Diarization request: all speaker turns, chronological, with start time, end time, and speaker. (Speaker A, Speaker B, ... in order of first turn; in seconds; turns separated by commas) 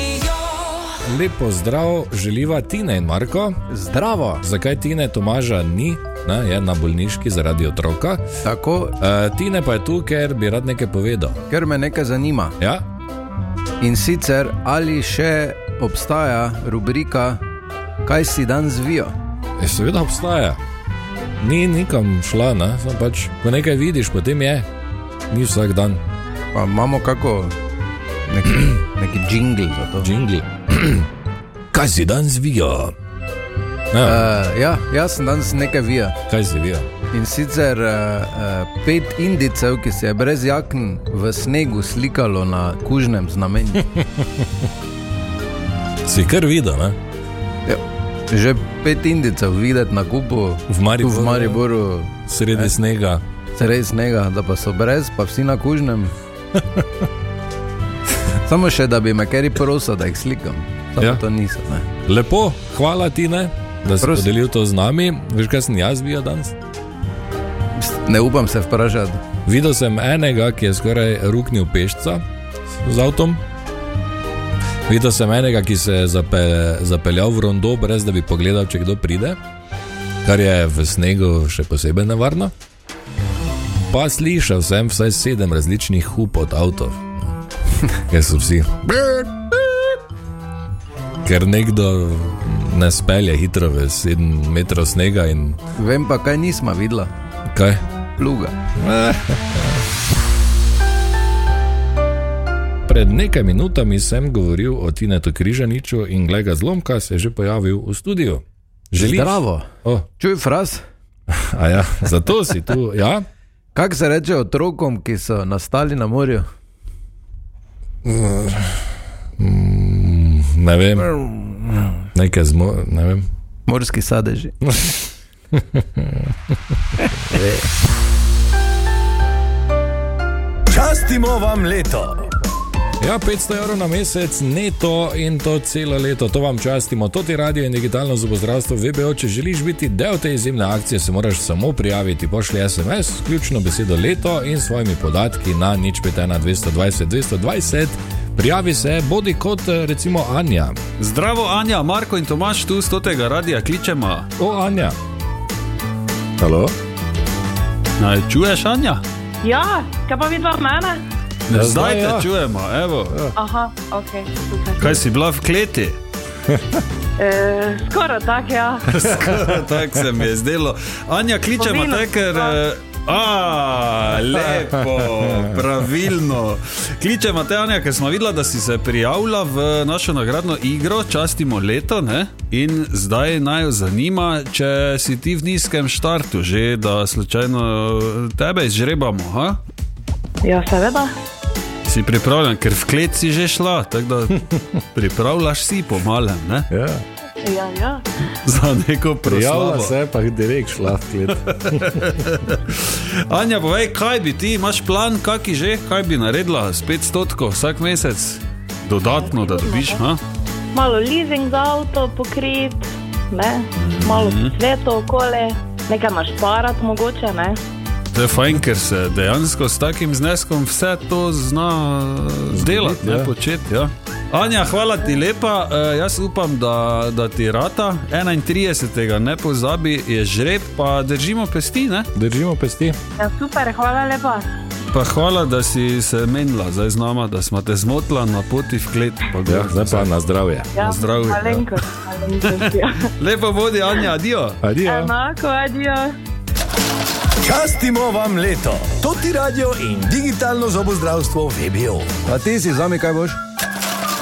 Speaker A: 1.1-3.6, Speaker B: 3.7-4.4, Speaker A: 4.4-8.2, Speaker B: 8.4-9.0, Speaker A: 9.0-11.4, Speaker B: 11.5-12.6, Speaker B: 13.8-17.4, Speaker B: 18.0-19.1, Speaker A: 19.6-20.6, Speaker A: 21.4-24.7, Speaker A: 25.3-26.0, Speaker B: 26.5-27.5, Speaker B: 28.3-30.1, Speaker A: 30.0-31.1, Speaker A: 31.7-32.9, Speaker A: 33.9-34.2, Speaker B: 34.0-36.2, Speaker A: 36.3-36.9, Speaker B: 37.1-43.9, Speaker A: 46.0-47.0, Speaker B: 47.7-52.7, Speaker A: 50.7-51.6, Speaker A: 52.3-53.2, Speaker B: 53.6-56.1, Speaker A: 56.6-56.9, Speaker B: 58.4-61.9, Speaker A: 62.0-66.6, Speaker B: 64.0-64.3, Speaker B: 67.8-69.2, Speaker A: 69.5-73.4, Speaker A: 74.9-79.4, Speaker A: 80.2-82.5, Speaker A: 83.9-87.2, Speaker A: 87.9-89.6, Speaker A: 91.2-95.6, Speaker B: 95.8-97.1, Speaker A: 97.5-97.8, Speaker B: 98.2-98.5, Speaker A: 98.8-99.8, Speaker A: 102.9-110.1, Speaker B: 109.0-109.7, Speaker B: 110.2-110.8, Speaker A: 111.3-113.2, Speaker B: 113.8-116.5, Speaker A: 118.0-118.8, Speaker A: 119.4-121.2, Speaker A: 122.1-123.2, Speaker B: 123.7-124.5, Speaker A: 125.5-126.2, Speaker B: 127.3-127.6, Speaker C: 130.7-132.3, Speaker A: 133.0-150.8, Speaker D: 151.0-154.3, Speaker A: 154.4-155.0, Speaker A: 156.4-156.7, Speaker D: 158.0-159.0, Speaker E: 159.4-161.0, Speaker D: 161.5-163.3, Speaker A: 161.5-162.3, Speaker E: 163.4-165.0, Speaker D: 164.8-166.0, Speaker E: 167.2-168.9, Speaker D: 168.9-189.6, Speaker E: 171.6-172.6, Speaker E: 190.4-191.1, Speaker D: 191.8-196.7, Speaker A: 196.7-197.0, Speaker E: 197.4-198.1, Speaker D: 198.3-199.9, Speaker A: 199.2-202.1, Speaker D: 201.5-210.2, Speaker E: 209.3-210.0, Speaker E: 210.7-217.6, Speaker D: 213.8-214.6, Speaker D: 218.1-232.1, Speaker A: 222.5-223.3, Speaker A: 232.2-233.0, Speaker E: 233.2-234.5, Speaker D: 234.9-240.1, Speaker A: 239.5-240.7, Speaker D: 240.8-241.8, Speaker E: 240.8-243.1, Speaker D: 242.4-244.6, Speaker A: 244.6-245.1, Speaker E: 244.8-246.1, Speaker C: 247.4-252.1, Speaker B: 252.2-253.4